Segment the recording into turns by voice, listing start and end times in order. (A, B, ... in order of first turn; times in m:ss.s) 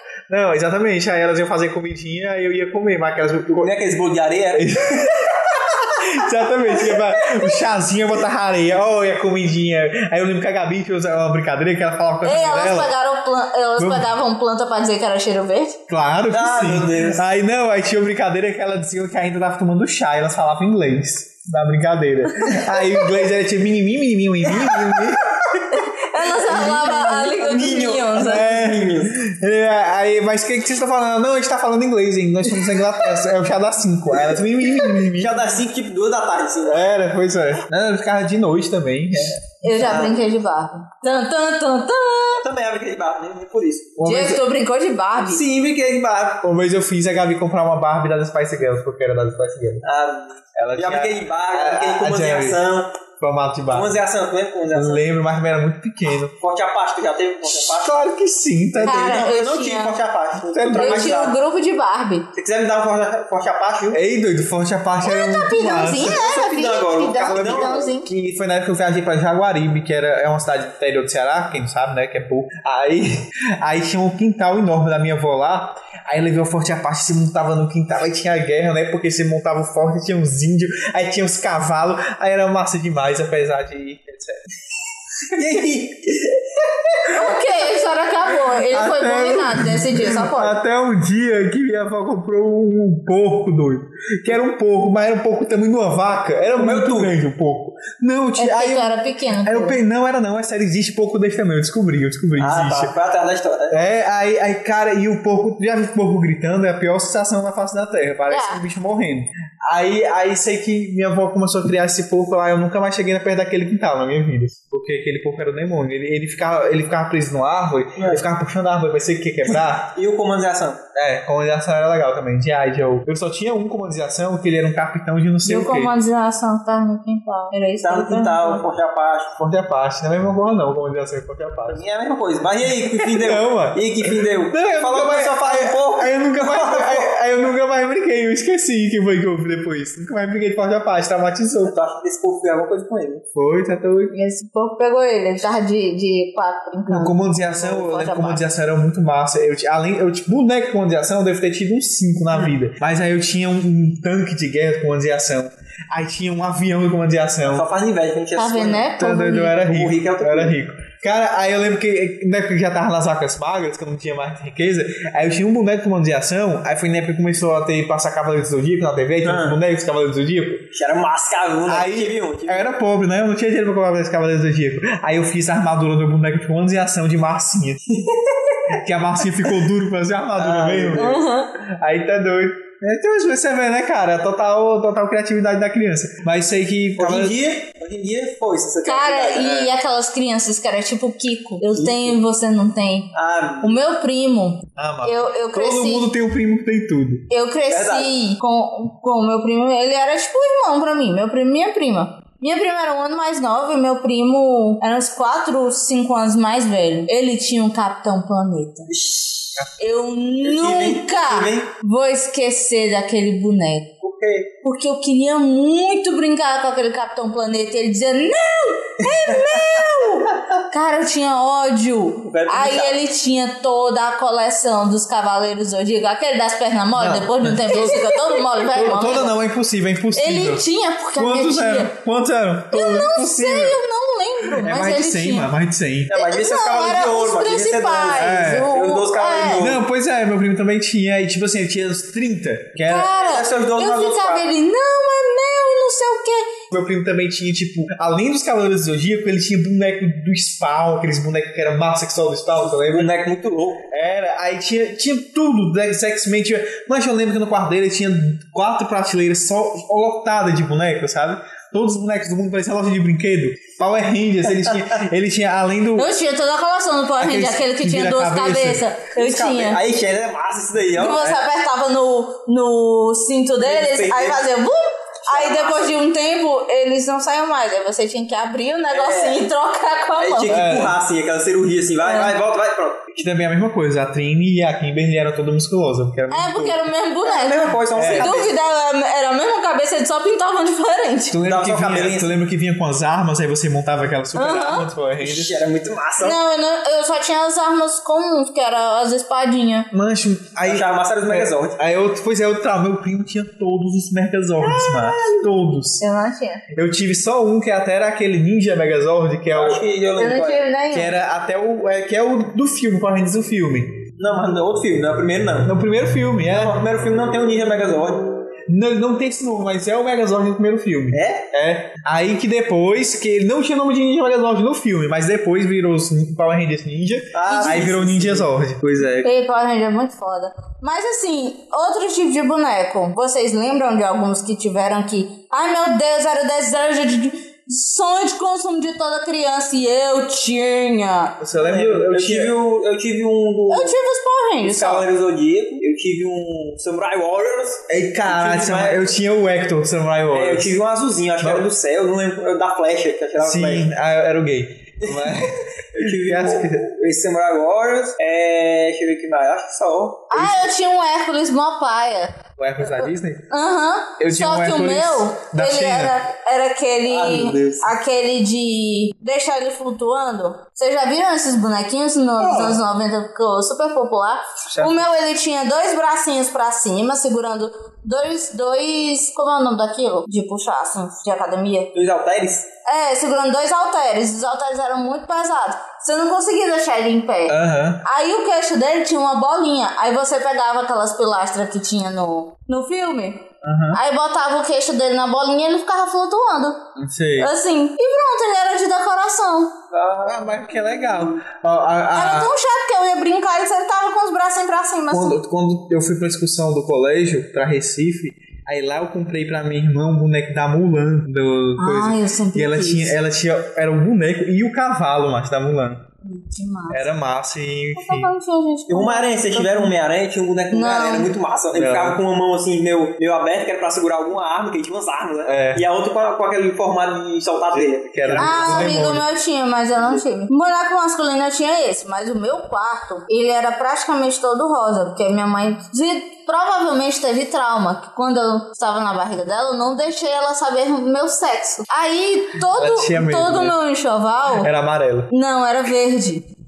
0:00.3-0:03.8 A
0:03.6-0:05.1 B
0:04.5-0:12.9 A
0:12.2-0:15.8 C
0:13.8-0:14.1 A
0:15.9-0:25.5 A
0:16.3-0:17.2 B
0:24.6-0:25.0 B
0:25.7-0:28.5 C
0:26.5-0:29.2 B
0:28.2-0:35.4 A
0:34.9-0:36.8 B
0:36.7-0:40.0 A
0:39.6-0:42.4 C
0:39.8-0:40.2 B
0:42.4-0:44.0 B
0:44.0-0:44.4 A
0:44.0-0:45.4 C
0:45.2-0:46.4 B
0:46.4-0:49.9 A
0:49.8-0:52.9 B
0:50.6-0:52.6 A
0:53.2-0:54.0 A
0:53.7-0:55.0 B
0:54.7-0:56.3 A
0:56.4-0:58.1 B
0:57.7-0:59.3 A
0:58.8-1:01.4 B
0:58.8-1:00.0 C
1:00.5-1:01.2 A
1:00.7-1:02.3 C
1:02.3-1:04.0 B
1:03.9-1:06.5 A
1:05.0-1:08.1 C
1:06.0-1:07.9 B
1:07.2-1:24.4 A
1:25.3-1:27.1 B
1:27.1-1:30.6 C
1:28.7-1:38.9 A
1:36.6-1:37.1 B
1:38.4-1:39.8 C
1:39.4-1:42.9 A
1:42.4-1:43.8 B
1:43.7-1:59.9 A
1:48.3-1:48.6 C
1:58.0-1:58.2 B
1:59.9-2:00.8 B
2:01.0-2:05.9 A
2:05.4-2:08.6 C
2:07.8-2:09.4 B
2:09.4-2:11.8 A
2:11.7-2:17.2 B
2:13.0-2:21.8 A
2:21.6-2:23.2 B
2:23.4-2:24.2 A
2:24.1-2:28.4 C
2:26.9-2:37.7 A
2:37.5-2:40.6 B
2:38.4-2:39.6 C
2:39.0-2:50.6 A
2:49.2-2:49.6 B
2:50.7-2:52.7 B
2:51.7-2:57.8 A
2:57.9-2:58.8 B
2:58.7-3:07.4 A
3:00.4-3:01.2 B
3:01.0-3:01.5 C
3:07.0-3:09.7 B
3:08.8-3:16.1 C
3:11.7-3:12.2 B
3:13.1-3:13.8 B
3:14.8-3:17.3 A
3:17.3-3:28.9 C
3:17.7-3:18.1 B
3:28.9-3:29.7 B
3:29.8-3:33.9 C
3:30.4-3:31.7 B
3:34.0-3:34.5 B
3:34.6-3:49.4 C
3:39.1-3:39.6 B
3:42.3-3:43.0 B
3:47.0-3:50.6 A
3:50.1-3:51.9 C
3:51.2-3:53.8 A
3:52.7-3:55.5 C
3:54.4-3:56.2 A
3:56.1-3:59.8 B
3:56.1-3:59.7 C
3:58.1-3:58.7 A
3:59.5-4:03.1 A
4:02.9-4:06.6 C
4:03.2-4:04.5 B
4:06.7-4:13.1 A
4:12.7-4:13.9 B
4:13.9-4:26.1 A
4:26.0-4:29.8 C
4:27.2-4:28.8 A
4:29.1-4:31.4 B
4:31.0-4:40.6 C
4:33.6-4:34.4 B
4:35.3-4:35.9 B
4:38.9-4:39.5 B
4:40.2-4:43.2 B
4:40.5-4:41.0 A
4:42.0-4:42.3 C
4:43.2-4:46.8 A
4:46.3-4:51.4 C
4:47.2-4:48.6 B
4:47.9-4:48.4 A
4:51.3-4:55.6 A
4:51.4-4:52.3 B
4:54.4-4:54.9 C
4:55.2-4:56.4 B
4:56.2-4:59.9 C
4:59.9-5:06.0 A
5:00.6-5:01.8 B
5:06.0-5:06.6 C
5:06.7-5:09.8 A
5:09.5-5:10.6 B
5:10.2-5:11.1 C
5:10.9-5:14.0 A
5:14.2-5:15.7 B
5:15.6-5:16.8 A
5:16.5-5:18.3 B
5:18.7-5:29.2 A
5:21.1-5:21.5 B
5:27.3-5:29.2 B
5:27.4-5:27.9 C
5:29.2-5:41.4 C
5:41.4-5:42.5 A
5:41.6-5:44.0 B
5:43.7-5:45.1 C
5:44.6-5:49.1 B
5:47.9-5:50.7 A
5:50.3-5:53.9 B
5:53.4-5:56.9 A
5:55.0-6:00.5 B
6:00.3-6:21.9 C
6:00.3-6:00.7 A
6:02.6-6:03.5 A
6:04.2-6:06.2 A
6:07.1-6:07.9 B
6:12.4-6:12.8 B
6:14.7-6:15.1 A
6:21.9-6:22.7 B
6:22.8-6:36.8 C
6:27.5-6:28.0 A
6:33.6-6:34.0 A
6:37.0-6:37.5 A
6:37.4-6:39.8 C
6:39.9-6:41.3 B
6:40.2-6:42.5 A
6:42.1-6:45.4 C
6:45.1-6:56.0 A
6:51.8-6:53.2 C
6:56.2-6:57.0 C
6:56.9-6:58.3 A
6:58.0-6:59.9 C
6:58.9-7:09.0 B
7:00.7-7:01.3 C
7:01.7-7:02.2 A
7:05.5-7:05.8 A
7:07.7-7:09.2 A
7:08.4-7:24.7 C
7:22.7-7:23.8 A
7:24.5-7:25.3 A
7:25.3-7:26.5 C